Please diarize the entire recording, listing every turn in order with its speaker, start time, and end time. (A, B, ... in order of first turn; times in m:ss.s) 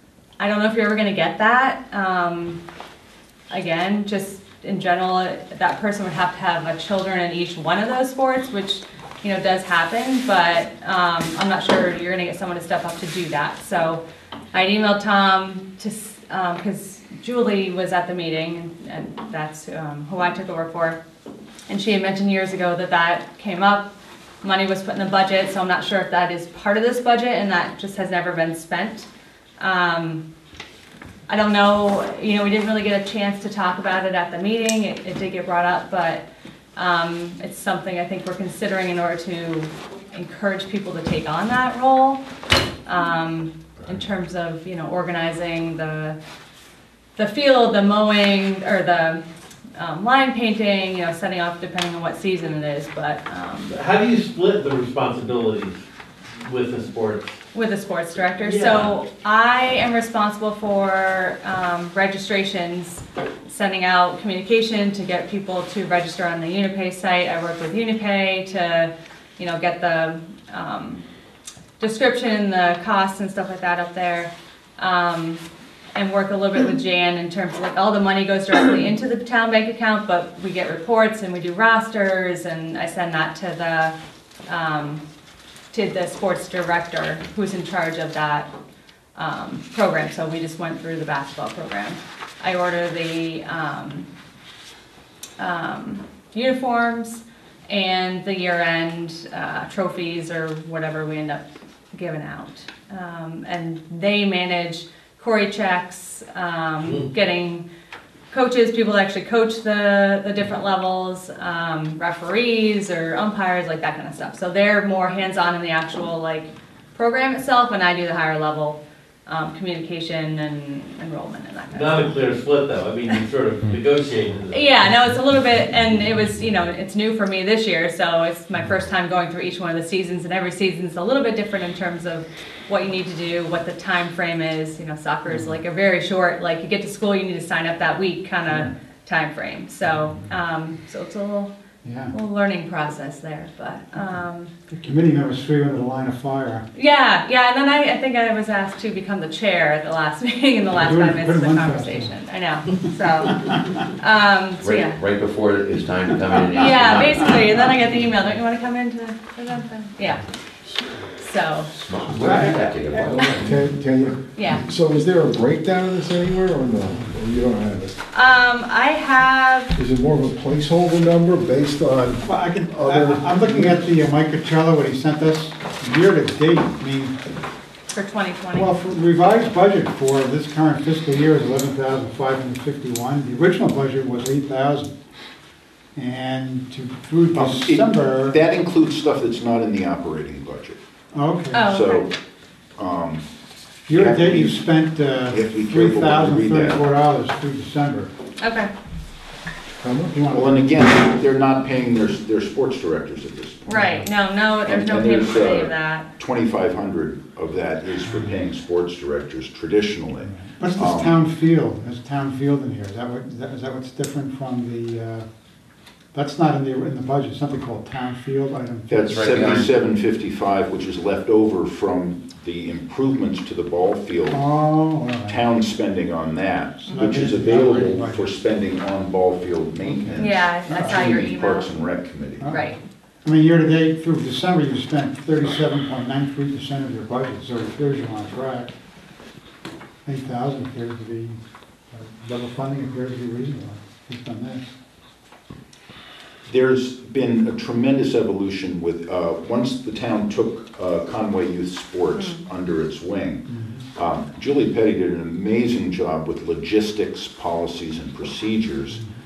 0:00.4-0:02.6 A
0:03.5-0:14.0 A
0:14.5-0:21.0 A
0:21.7-0:23.9 A
0:24.4-0:29.1 A
0:29.6-0:30.2 A
0:31.3-0:42.2 A
0:42.9-0:46.2 A
0:47.2-0:49.2 A
0:49.8-0:53.7 A
0:53.7-0:55.8 B
0:56.4-0:57.4 B
0:57.5-1:11.0 A
0:58.4-0:58.9 B
1:11.8-1:15.4 A
1:16.0-1:24.0 A
1:24.5-1:25.0 A
1:25.7-1:28.5 A
1:29.2-1:34.1 A
1:35.4-1:47.6 A
1:48.3-2:02.3 A
2:01.7-2:05.0 B
2:04.5-2:21.5 A
2:15.3-2:15.6 C
2:21.8-2:22.2 C
2:22.1-2:24.5 A
2:24.8-2:26.7 C
2:26.7-2:35.0 A
2:30.8-2:32.2 C
2:32.7-2:33.6 C
2:34.6-2:37.5 D
2:36.3-2:36.7 C
2:36.6-2:40.2 A
2:41.2-2:41.7 A
2:41.7-2:43.4 D
2:42.1-2:43.3 C
2:43.3-2:48.0 E
2:44.4-2:44.6 A
2:48.1-2:49.8 A
2:49.8-2:54.0 E
2:52.2-2:57.1 C
2:57.9-2:58.8 A
2:58.5-3:05.0 C
3:06.0-3:08.4 C
3:07.4-3:10.8 F
3:11.1-3:11.8 C
3:11.5-3:12.1 A
3:11.6-3:12.1 F
3:12.8-3:13.2 F
3:13.9-3:18.1 C
3:13.9-3:16.8 F
3:18.4-3:18.7 A
3:19.8-3:20.2 E
3:19.9-3:20.6 C
3:20.3-3:24.0 F
3:23.7-3:26.1 A
3:23.7-3:24.0 C
3:24.6-3:31.1 F
3:28.0-3:28.4 C
3:30.2-3:35.3 C
3:36.1-3:39.5 C
3:38.9-3:44.4 F
3:39.0-3:39.7 D
3:44.3-3:45.4 C
3:45.3-3:52.6 F
3:46.8-3:48.3 C
3:49.8-3:51.3 C
3:50.2-3:51.7 A
3:52.4-3:58.7 C
3:52.5-3:52.8 A
4:00.0-4:01.4 C
4:01.9-4:04.6 C
4:06.5-4:19.0 F
4:12.1-4:12.4 A
4:13.5-4:13.8 C